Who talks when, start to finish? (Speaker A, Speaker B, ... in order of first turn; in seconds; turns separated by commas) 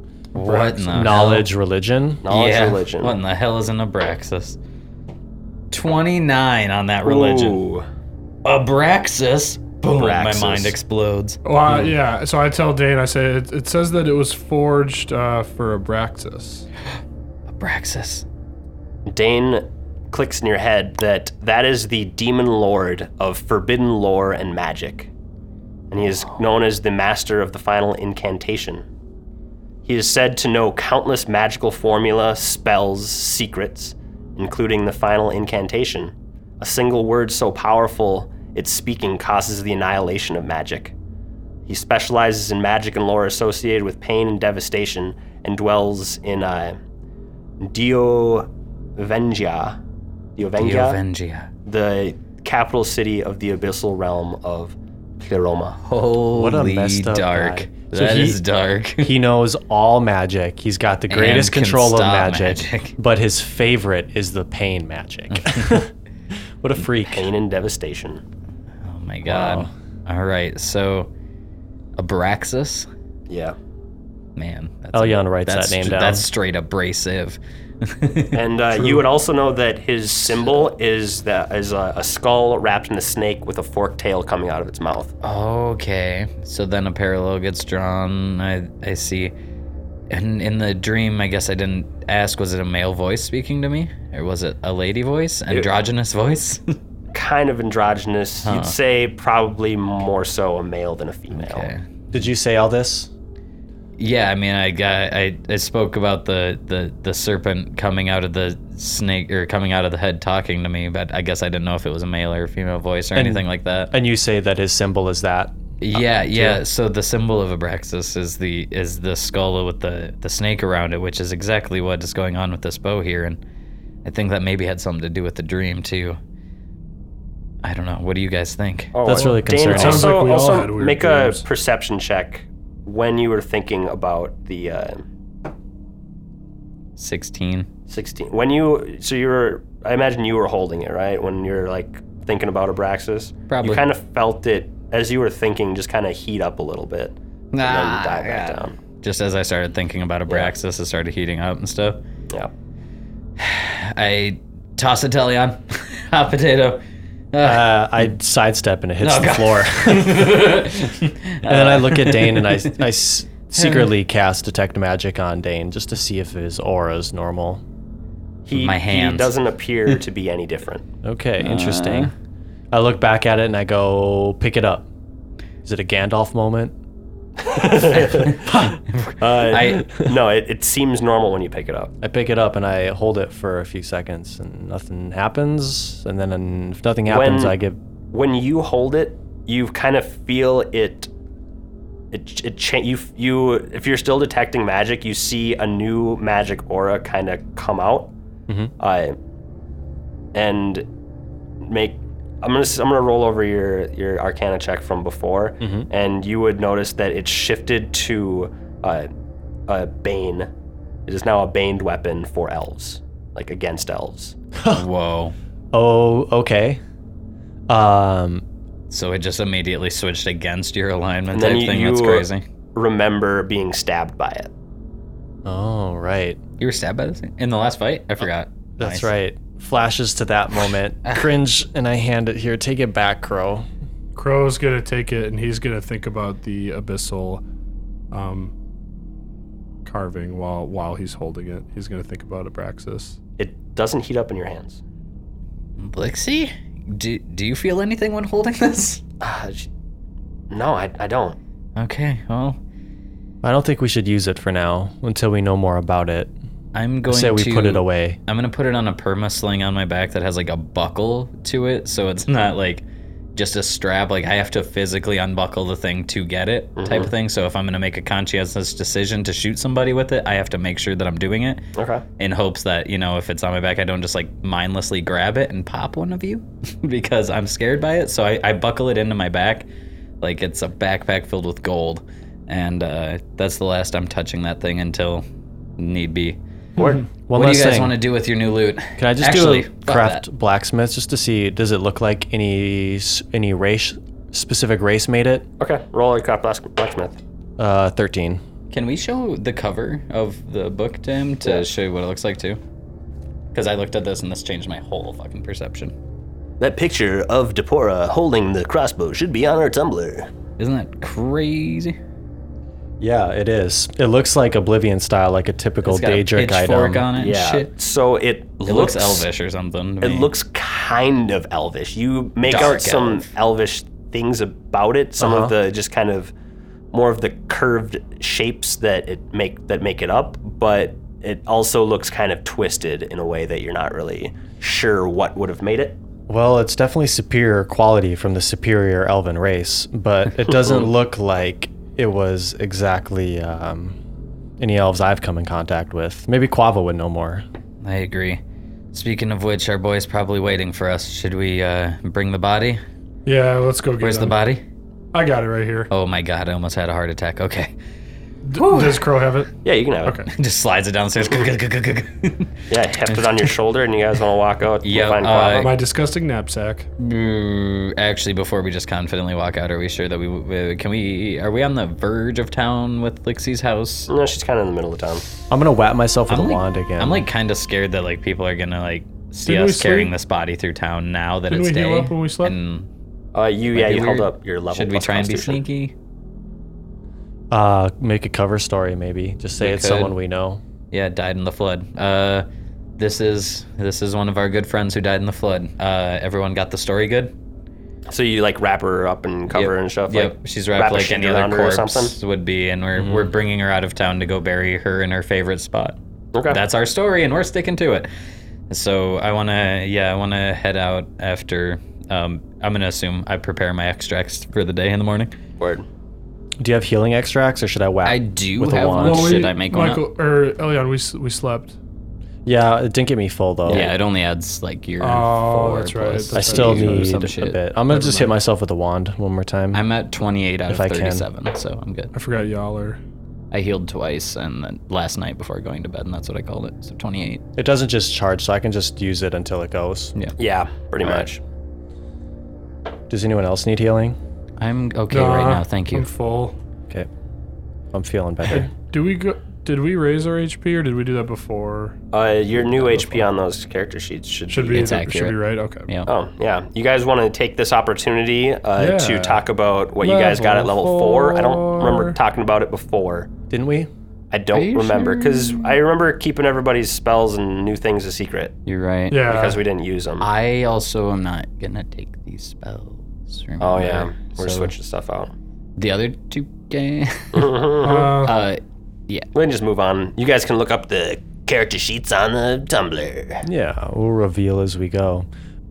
Speaker A: 0.3-1.5, Speaker B: 0.4-2.3, Speaker C: 2.2-3.2, Speaker A: 2.3-4.6, Speaker A: 5.7-7.6, Speaker C: 7.0-7.9, Speaker A: 8.4-11.4, Speaker C: 9.9-10.8, Speaker D: 11.4-16.7, Speaker A: 17.5-18.2, Speaker C: 19.1-25.1, Speaker C: 25.9-28.9, Speaker C: 29.9-40.9, Speaker C: 41.7-46.8, Speaker C: 47.6-49.8, Speaker C: 50.4-51.0, Speaker A: 50.6-51.5, Speaker C: 51.7-55.8, Speaker A: 55.8-59.1, Speaker B: 56.3-58.4, Speaker B: 59.0-65.9, Speaker A: 61.1-63.0, Speaker A: 65.3-65.8, Speaker B: 66.6-67.3, Speaker C: 67.1-68.2, Speaker A: 68.8-71.1, Speaker B: 69.3-69.7, Speaker A: 72.0-72.9, Speaker C: 73.3-73.6, Speaker A: 74.4-78.4, Speaker B: 74.9-76.3, Speaker C: 78.3-85.1, Speaker A: 85.2-89.3, Speaker A: 90.1-96.8, Speaker C: 97.1-101.7, Speaker A: 98.4-98.8, Speaker A: 101.3-101.9, Speaker B: 102.1-103.1, Speaker A: 104.0-113.9, Speaker B: 113.2-116.6, Speaker A: 115.8-123.4, Speaker A: 124.0-126.2, Speaker A: 127.6-129.0, Speaker C: 128.9-135.1, Speaker B: 129.1-130.2, Speaker D: 129.1-131.4, Speaker A: 137.0-137.7, Speaker C: 137.9-148.8, Speaker A: 143.5-143.9, Speaker A: 147.5-152.0, Speaker A: 153.4-158.1, Speaker B: 157.4-160.7, Speaker A: 159.0-162.8, Speaker B: 161.5-167.6, Speaker A: 163.6-163.9, Speaker C: 168.4-170.9, Speaker A: 168.5-169.3, Speaker B: 171.0-172.1, Speaker A: 171.4-172.1, Speaker B: 172.7-174.9, Speaker B: 175.6-176.8, Speaker C: 177.4-178.6, Speaker A: 177.9-179.9, Speaker C: 179.2-181.9, Speaker B: 182.0-187.8, Speaker C: 187.1-187.6, Speaker C: 188.1-191.1, Speaker C: 192.1-198.1, Speaker B: 198.5-198.7, Speaker C: 198.8-199.2, Speaker C: 200.3-200.9, Speaker C: 201.6-209.1, Speaker B: 205.6-205.9, Speaker C: 209.7-210.5, Speaker C: 211.1-214.4, Speaker B: 214.6-214.8, Speaker A: 214.7-215.3, Speaker B: 215.7-216.8, Speaker B: 217.7-218.4, Speaker A: 218.9-222.4, Speaker C: 221.3-224.5, Speaker B: 225.4-226.4, Speaker A: 226.6-229.1, Speaker B: 228.8-233.7, Speaker D: 234.2-237.4, Speaker D: 238.1-238.5, Speaker D: 239.8-243.2, Speaker C: 243.4-244.8, Speaker A: 245.8-249.0, Speaker C: 249.2-249.7, Speaker C: 250.5-251.4, Speaker A: 251.8-252.6, Speaker B: 253.4-256.3, Speaker A: 256.7-262.8, Speaker B: 257.1-258.2, Speaker A: 263.4-271.6, Speaker C: 266.8-267.1, Speaker C: 271.8-272.0, Speaker A: 272.2-279.7, Speaker A: 280.2-285.2, Speaker A: 285.8-286.4, Speaker C: 286.8-287.0, Speaker B: 287.3-288.0, Speaker A: 287.3-290.2, Speaker B: 289.0-295.5, Speaker C: 295.6-297.2, Speaker B: 297.6-298.4, Speaker A: 298.7-302.6, Speaker A: 303.5-305.9, Speaker C: 306.6-310.3, Speaker A: 310.6-312.0, Speaker B: 313.0-317.1, Speaker A: 315.9-317.7, Speaker C: 317.2-319.3, Speaker A: 318.6-320.3, Speaker C: 320.0-326.3, Speaker A: 322.4-323.3, Speaker B: 325.2-325.5, Speaker C: 326.9-336.0, Speaker B: 336.3-344.0, Speaker B: 344.6-347.4, Speaker A: 347.8-348.4, Speaker A: 348.9-352.8, Speaker D: 353.3-354.4, Speaker A: 354.0-354.6, Speaker D: 355.1-355.9, Speaker A: 355.9-357.8, Speaker D: 358.5-359.5, Speaker A: 358.5-359.1, Speaker C: 359.6-360.3, Speaker A: 360.3-362.5, Speaker C: 362.7-365.7, Speaker A: 363.1-363.5, Speaker A: 364.8-365.7, Speaker D: 365.6-366.9, Speaker A: 367.0-374.1, Speaker C: 374.1-375.2, Speaker B: 375.5-377.3, Speaker A: 376.3-382.9, Speaker D: 379.4-380.1, Speaker D: 381.5-382.6, Speaker C: 383.3-385.6, Speaker A: 383.7-385.9, Speaker B: 387.5-390.6, Speaker A: 389.6-390.1, Speaker A: 390.9-392.5, Speaker A: 393.0-397.3, Speaker C: 398.1-402.1, Speaker A: 399.5-406.0, Speaker B: 403.0-403.3, Speaker C: 406.3-406.6, Speaker A: 406.5-408.1, Speaker A: 408.7-415.3, Speaker C: 415.6-415.9, Speaker B: 416.6-419.5, Speaker A: 418.1-420.1, Speaker D: 419.0-421.8, Speaker B: 422.5-423.9, Speaker A: 423.7-427.6, Speaker D: 425.0-427.4, Speaker B: 426.3-429.8, Speaker D: 427.9-428.3, Speaker A: 429.7-432.1, Speaker B: 430.7-431.3, Speaker D: 432.1-433.0, Speaker A: 433.5-437.4, Speaker B: 437.6-440.1, Speaker C: 440.4-441.4, Speaker B: 443.1-444.2, Speaker A: 444.6-446.1, Speaker D: 445.1-446.6, Speaker B: 447.9-448.7, Speaker D: 448.5-452.0, Speaker C: 452.1-455.0, Speaker D: 454.5-455.9, Speaker A: 454.7-456.1, Speaker C: 456.1-463.3, Speaker D: 458.8-459.4, Speaker D: 460.0-462.2, Speaker B: 463.5-463.9, Speaker C: 464.3-468.6, Speaker A: 464.5-465.8, Speaker A: 468.7-469.2, Speaker D: 469.1-469.6, Speaker C: 469.2-470.3, Speaker A: 470.2-474.7, Speaker C: 473.6-475.3, Speaker A: 475.8-477.5, Speaker C: 477.3-478.2, Speaker D: 477.8-478.4, Speaker A: 478.1-479.3, Speaker C: 479.3-483.4, Speaker B: 483.4-485.3